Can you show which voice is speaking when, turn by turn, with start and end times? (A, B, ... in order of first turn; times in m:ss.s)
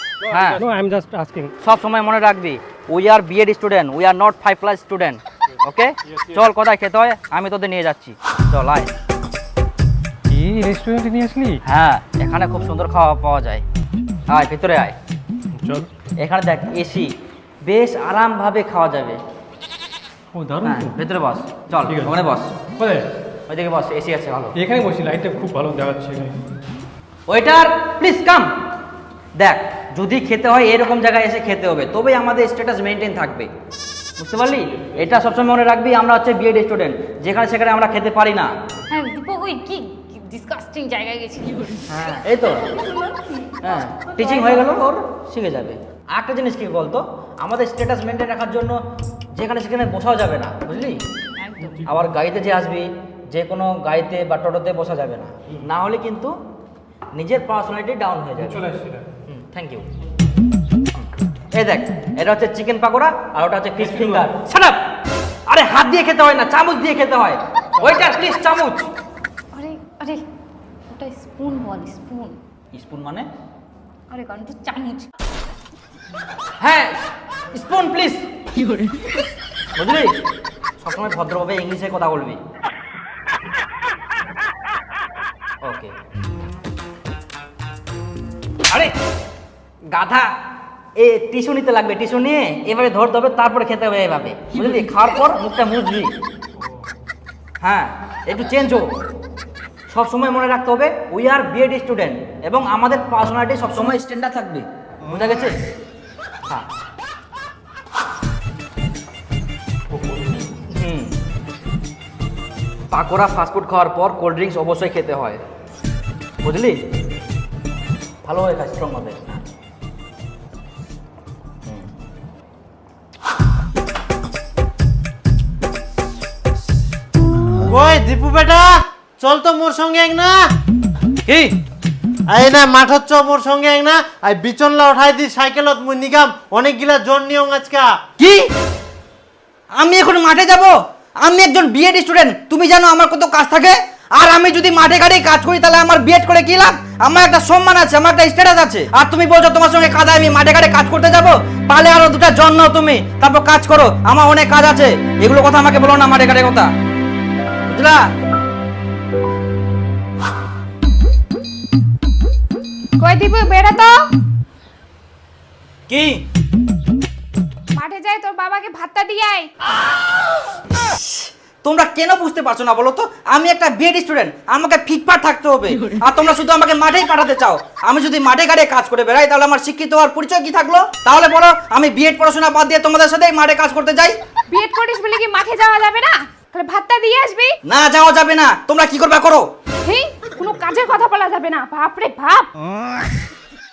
0:00.3-0:01.5 A
0:00.3-0:00.6 B
0:01.6-0:08.9 B
0:10.3-0:11.6 A
0:11.6-0:13.6 B
0:14.3-0:15.0 B
0:16.2-0:17.1 B
0:17.6-0:19.2 B
0:20.4-0:20.8 A
0:20.6-0:22.5 B
0:21.8-0:22.1 A
0:23.5-0:24.5 B
0:24.6-0:26.3 A
0:27.3-0:28.5 B
0:29.4-0:33.5 B
0:34.2-0:38.5 B
0:38.9-0:41.9 C
0:41.9-0:42.8 B
0:42.8-0:43.5 C
0:43.6-0:48.8 B
0:49.3-0:51.0 B
0:51.4-0:51.8 C
0:51.8-0:56.3 B
0:57.1-0:58.6 B
0:59.2-0:59.9 B
1:01.5-1:04.8 B
1:05.5-1:08.9 B
1:09.5-1:10.2 C
1:10.9-1:12.4 C
1:12.7-1:13.2 B
1:14.1-1:15.1 C
1:16.6-1:16.9 B
1:17.5-1:18.3 B
1:18.6-1:19.1 C
1:19.8-1:20.1 B
1:20.8-1:22.4 B
1:25.6-1:25.9 B
1:28.7-1:28.9 B
1:29.9-1:30.3 B
1:31.0-1:36.1 B
1:37.6-1:38.8 B
1:39.9-1:45.6 B
1:50.6-1:51.1 B
1:52.9-1:55.4 B
1:56.4-1:56.8 B
1:58.2-1:59.4 B
2:07.6-2:10.3 D
2:11.2-2:11.6 B
2:12.3-2:17.9 D
2:18.2-2:18.5 B
2:19.8-2:36.7 B
2:37.7-2:38.0 B
2:43.0-2:44.1 E
2:45.9-2:46.2 B
2:47.7-2:49.5 E
2:50.7-3:04.2 B
3:04.5-3:07.6 E
3:07.6-3:09.4 B
3:09.8-3:12.5 E